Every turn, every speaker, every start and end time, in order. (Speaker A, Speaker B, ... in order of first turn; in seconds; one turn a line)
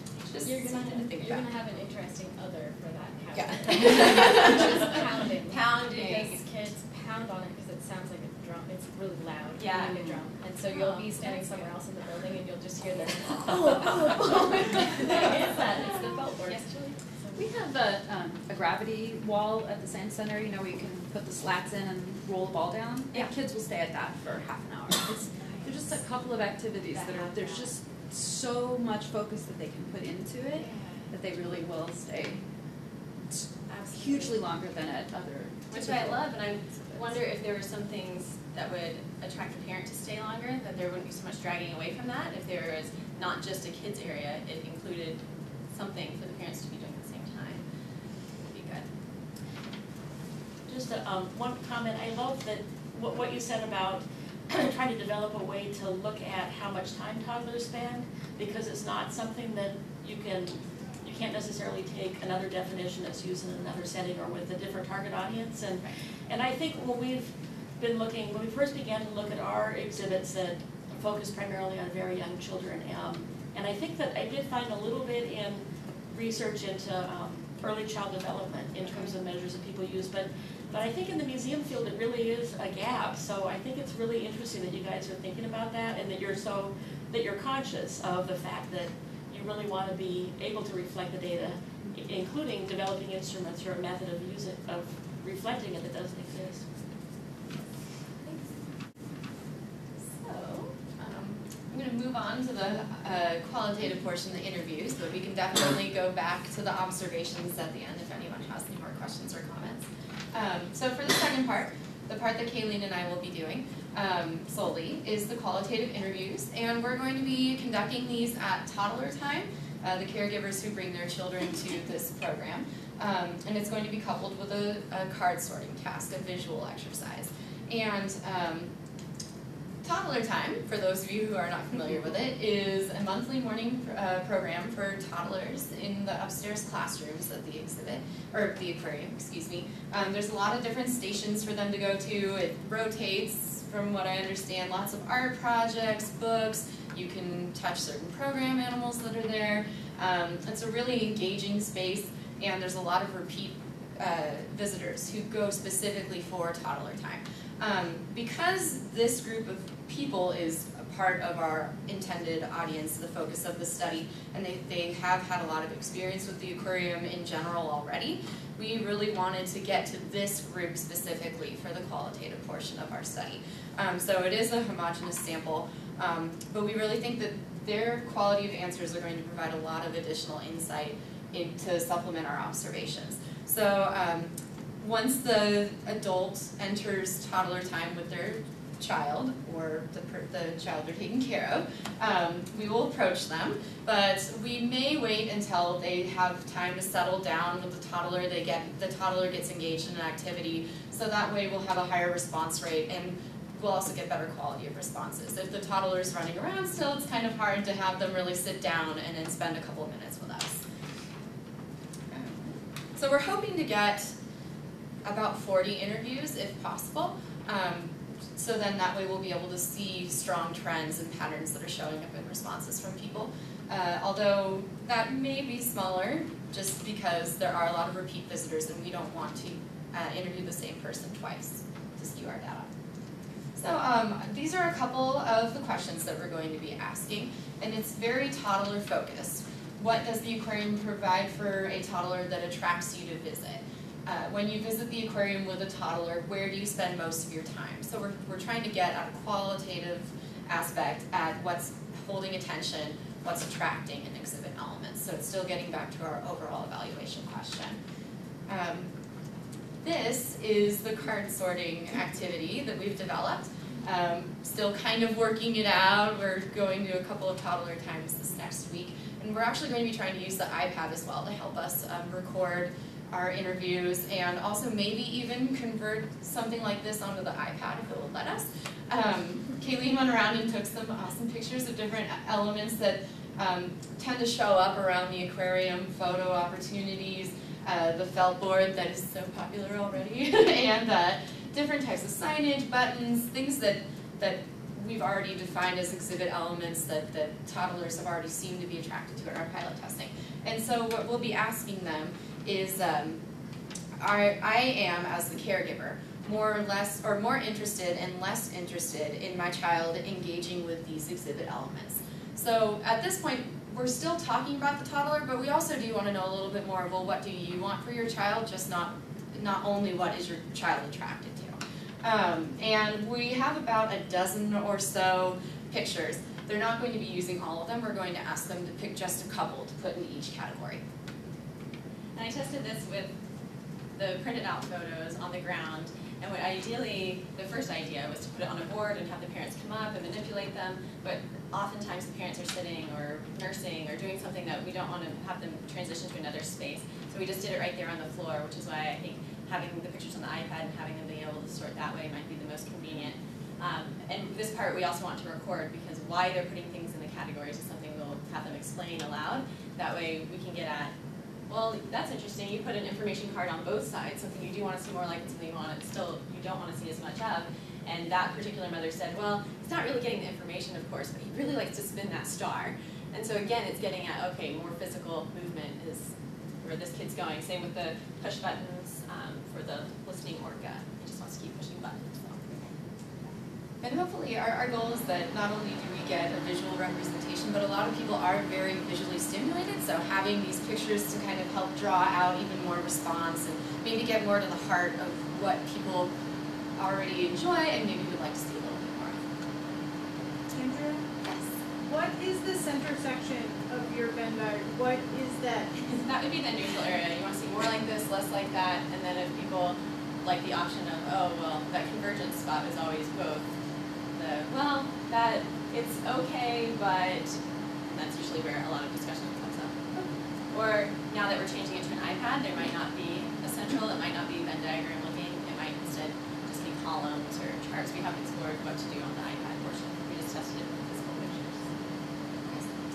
Speaker A: 0.3-1.5
Speaker B: 0.4-17.5
Speaker A: 3.3-4.8
Speaker C: 5.5-6.4
Speaker C: 9.6-10.1
Speaker C: 10.7-11.6
Speaker D: 17.3-32.4
Speaker C: 25.4-26.0
Speaker C: 26.9-27.7
Speaker C: 30.5-31.1
Speaker D: 33.3-37.1
Speaker C: 33.7-34.4
Speaker C: 35.7-47.6
Speaker C: 48.4-48.9
Speaker E: 50.6-96.7
Speaker C: 100.1-100.7
Speaker A: 100.7-128.7
Speaker A: 129.8-210.6
Speaker A: 212.1-214.1
Speaker A: 215.0-232.7
Speaker A: 233.6-257.8
Speaker A: 258.5-258.9
Speaker A: 259.8-303.2
Speaker A: 304.0-330.8
Speaker C: 332.1-333.1
Speaker C: 334.0-360.9
Speaker C: 361.5-376.1
Speaker C: 376.6-382.7
Speaker A: 383.8-396.1
Speaker A: 396.8-399.2
Speaker F: 400.5-401.0
Speaker A: 401.2-401.5
Speaker F: 401.8-405.7
Speaker C: 405.8-413.5
Speaker C: 414.1-420.0
Speaker C: 420.5-431.7